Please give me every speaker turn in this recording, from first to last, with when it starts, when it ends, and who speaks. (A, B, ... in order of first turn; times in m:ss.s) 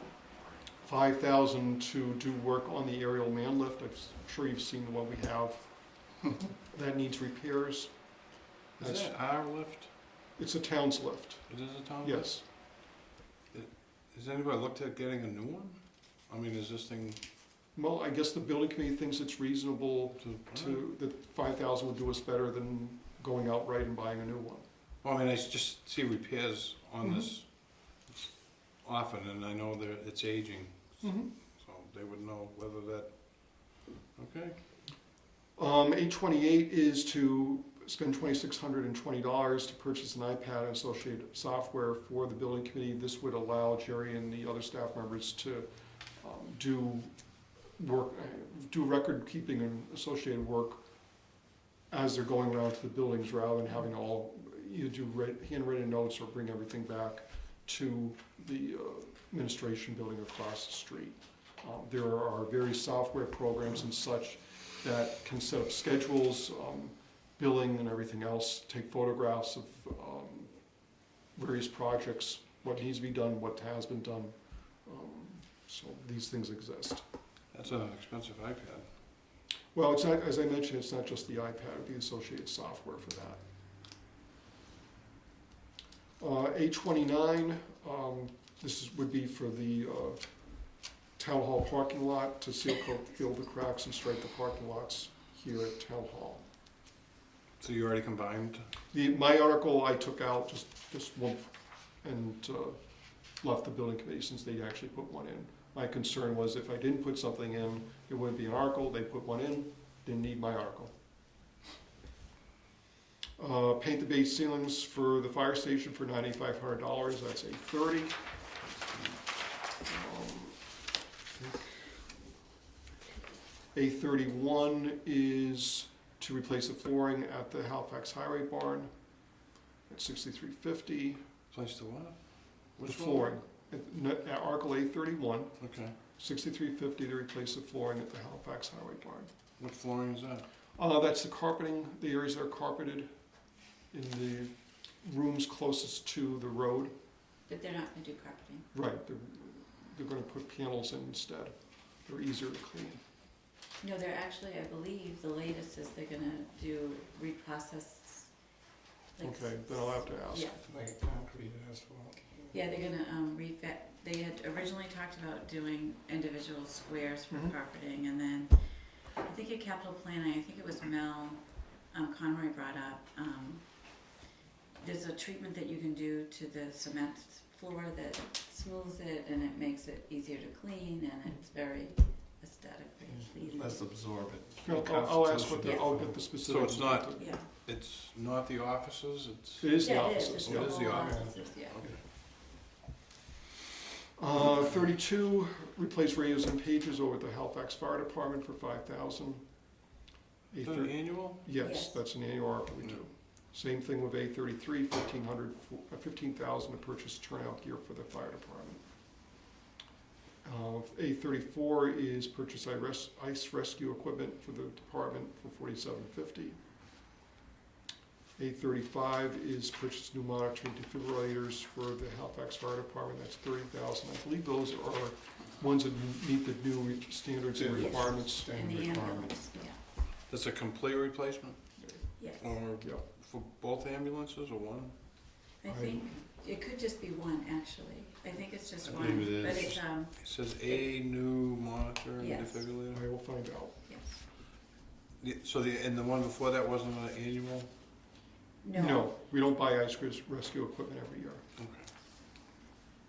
0:00.8-0:05.7 A
0:06.6-0:07.9 A
0:08.8-0:09.1 A
0:08.8-0:09.9 B
0:10.4-0:12.4 A
0:11.5-0:12.4 B
0:13.5-0:17.2 B
0:17.7-0:24.6 A
0:20.2-0:20.8 B
0:25.0-0:34.6 B
0:31.0-0:31.3 A
0:35.6-0:45.7 A
0:46.2-0:47.1 A
0:47.8-0:50.8 A
0:51.9-1:10.5 A
1:11.4-1:17.0 A
1:17.5-1:18.9 B
1:19.7-1:23.4 A
1:26.2-1:30.3 A
1:31.2-1:36.4 A
1:37.6-1:38.6 B
1:38.9-1:41.5 A
1:42.0-1:42.8 A
1:43.4-1:50.9 A
1:53.4-1:58.2 A
1:59.8-2:00.6 A
2:01.4-2:01.6 A
2:03.7-2:08.9 A
2:09.9-2:11.2 A
2:11.5-2:13.4 B
2:12.8-2:15.5 A
2:15.6-2:15.9 B
2:16.1-2:19.3 A
2:19.6-2:20.4 B
2:20.8-2:23.1 A
2:23.9-2:26.9 A
2:27.5-2:28.6 C
2:28.7-2:33.0 A
2:33.8-2:38.3 C
2:39.1-2:40.6 C
2:39.2-2:40.6 A
2:40.6-2:42.5 D
2:42.5-2:54.2 C
2:47.3-2:47.5 A
2:54.8-3:03.9 C
3:03.1-3:06.2 D
3:04.6-3:07.3 A
3:05.6-3:05.9 C
3:06.2-3:12.0 B
3:07.2-3:07.4 C
3:09.6-3:11.0 A
3:09.8-3:11.8 C
3:10.9-3:11.3 D
3:14.2-3:19.4 A
3:20.5-3:28.8 A
3:20.6-3:21.4 B
3:21.6-3:22.0 C
3:30.4-3:36.6 A
3:38.4-3:48.6 A
3:47.5-3:49.4 D
3:47.7-3:49.8 C
3:50.3-3:55.0 B
3:52.2-3:52.6 C
3:52.8-3:53.0 A
3:55.6-4:00.8 C
3:55.7-3:56.1 A
3:58.8-3:59.8 D
3:59.0-4:03.0 B
4:02.2-4:02.7 C
4:02.9-4:03.8 A
4:03.8-4:04.2 C
4:05.2-4:07.7 B
4:08.6-4:09.1 C
4:08.7-4:11.4 A
4:11.6-4:11.9 B